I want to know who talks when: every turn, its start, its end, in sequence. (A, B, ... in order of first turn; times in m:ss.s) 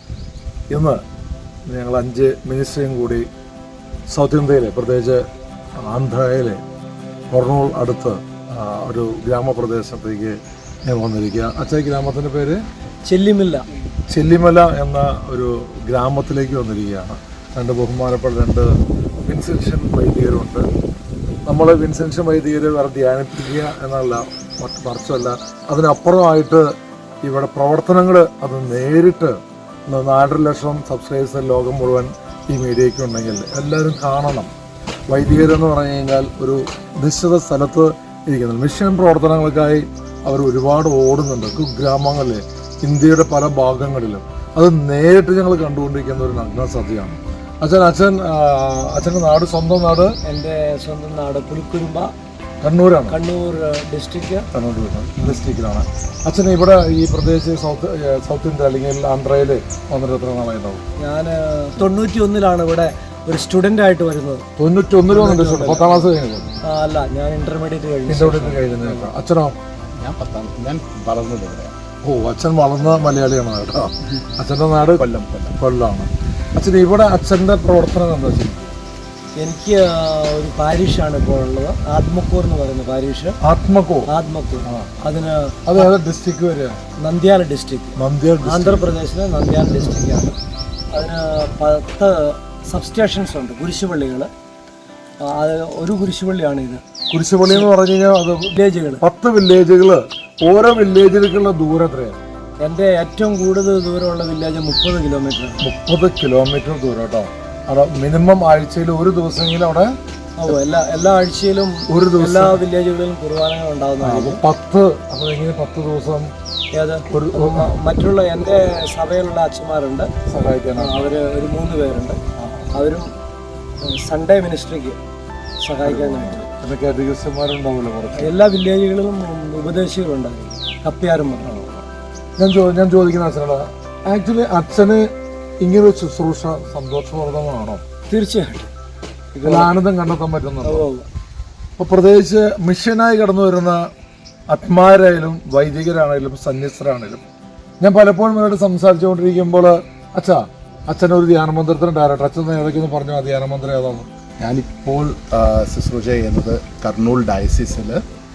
0:00.7-0:01.0 A
0:01.7-0:03.3 A
0:04.1-0:05.2 A
0:05.9-0:06.6 A
0:07.3-0:12.6 A
0:13.1-0:13.6 B
0:14.1-0:18.7 A
0:19.2-0:20.7 A
0:21.5-0:26.7 A
0:27.2-0:29.4 A
0:29.9-0:34.5 A
0:35.1-0:50.1 A
0:50.2-0:52.1 B
0:52.6-0:53.2 A
0:53.1-0:54.5 B
0:54.5-1:00.8 A
1:01.0-1:04.4 B
1:04.6-1:06.5 A
1:05.1-1:06.1 B
1:06.7-1:08.7 B
1:08.1-1:09.6 A
1:09.9-1:11.8 C
1:12.0-1:15.0 A
1:15.0-1:15.5 C
1:15.6-1:18.7 A
1:19.4-1:23.4 B
1:23.4-1:24.1 A
1:24.1-1:25.9 B
1:25.7-1:26.8 A
1:27.0-1:30.4 B
1:28.0-1:28.9 A
1:30.9-1:34.3 B
1:35.2-1:36.8 B
1:37.1-1:42.2 A
1:37.4-1:37.7 B
1:38.5-1:39.0 B
1:42.6-1:45.7 B
1:45.6-1:50.0 A
1:50.4-1:54.4 B
1:51.9-1:52.6 A
1:54.0-1:56.3 A
1:56.8-2:00.1 B
1:57.1-1:57.7 A
2:00.3-2:01.1 A
2:00.8-2:02.2 B
2:02.4-2:02.7 A
2:02.7-2:03.1 B
2:03.9-2:05.0 B
2:05.6-2:06.5 B
2:05.8-2:08.4 A
2:08.2-2:11.5 B
2:11.4-2:11.9 A
2:12.4-2:15.1 A
2:15.6-2:17.8 A
2:18.1-2:18.7 B
2:19.3-2:19.7 B
2:19.4-2:20.8 A
2:20.6-2:21.1 B
2:21.8-2:23.8 A
2:24.5-2:27.2 A
2:27.8-2:34.1 A
2:34.4-2:38.0 C